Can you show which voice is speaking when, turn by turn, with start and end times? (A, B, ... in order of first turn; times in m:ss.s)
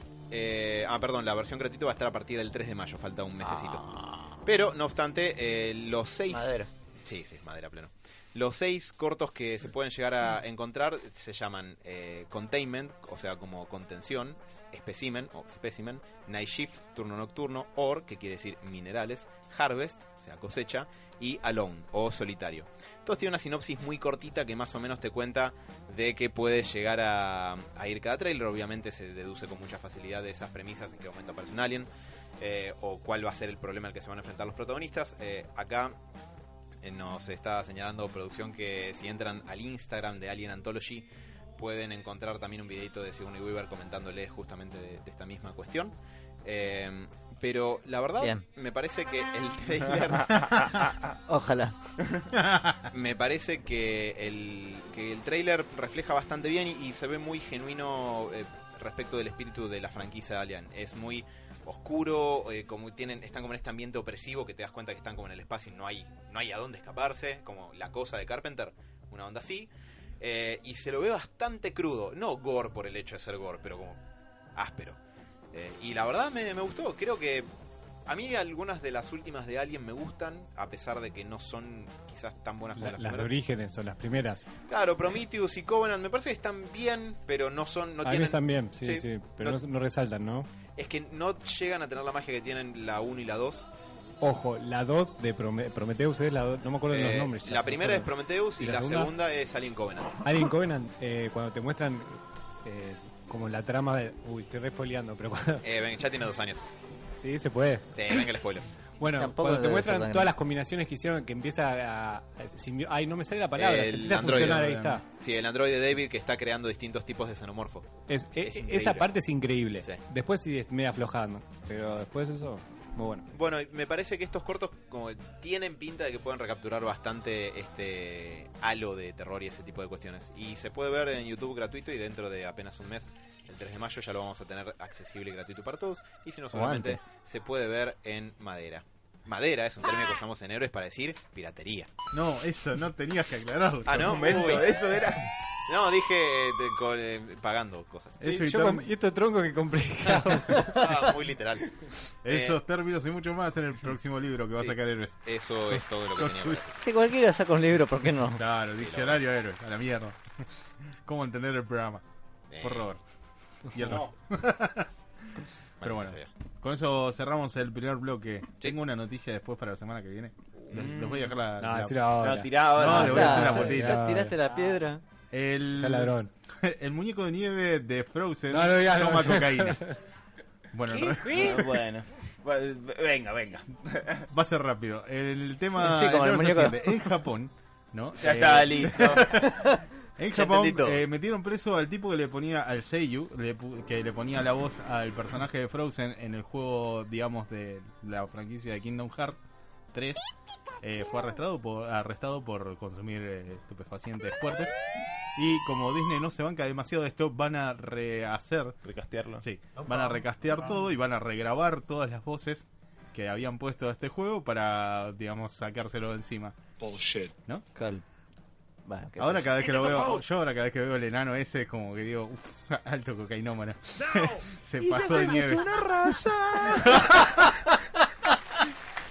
0:00.3-0:31.9 A
0:03.9-0:04.2 B
0:06.3-0:06.7 B
0:32.4-0:35.9 A
0:36.8-0:41.1 A
0:41.6-0:50.9 A
0:51.3-0:51.8 B
0:52.3-0:52.9 C
0:52.9-1:14.0 A
1:14.6-1:15.0 A
1:15.5-1:17.5 A
1:18.0-1:23.3 A
1:22.8-1:24.5 D
1:24.7-1:29.6 A
1:28.0-1:30.5 D
1:30.8-1:33.6 A
1:34.2-1:39.1 D
1:36.9-1:40.2 A
1:40.2-1:45.6 D
1:45.6-1:46.6 A
1:47.2-1:48.3 D
1:47.9-1:48.7 A
1:49.0-1:55.0 D
1:49.1-1:50.4 B
1:53.6-1:59.1 A
1:54.2-1:55.0 C
1:58.1-2:03.2 D
2:03.3-2:21.9 A
2:16.5-2:17.0 B
2:22.1-2:24.6 C
2:23.8-2:24.7 A
2:23.9-2:25.3 E
2:25.7-2:28.2 A
2:28.2-2:28.9 C
2:28.2-2:31.1 D
2:30.2-2:31.7 A
2:32.2-2:36.6 C
2:32.3-2:32.6 A
2:34.6-2:36.8 A
2:36.8-2:38.4 B
2:38.4-2:40.4 C
2:38.8-2:39.2 A
2:41.0-2:42.0 C
2:42.5-2:42.9 A
2:42.6-2:43.0 C
2:43.6-2:52.1 C
2:43.8-2:44.1 E
2:45.8-2:46.3 A
2:50.7-2:51.4 E
2:51.6-2:54.4 D
2:52.2-2:53.9 E
2:52.7-2:54.0 C
2:52.8-2:55.0 B
2:55.3-2:59.8 C
2:55.8-2:56.3 D
2:58.5-3:00.0 D
3:00.7-3:01.7 C
3:00.9-3:01.7 D
3:01.3-3:04.3 E
3:04.3-3:19.4 C
3:05.8-3:06.8 B
3:08.2-3:09.4 E
3:10.3-3:11.0 A
3:19.9-3:20.3 C
3:20.8-3:24.7 C
3:25.4-3:28.8 C
3:28.8-3:29.4 E
3:29.4-3:37.6 C
3:37.8-3:38.0 B
3:38.8-3:39.5 B
3:39.2-3:45.7 C
3:44.8-3:46.9 E
3:46.7-3:48.3 C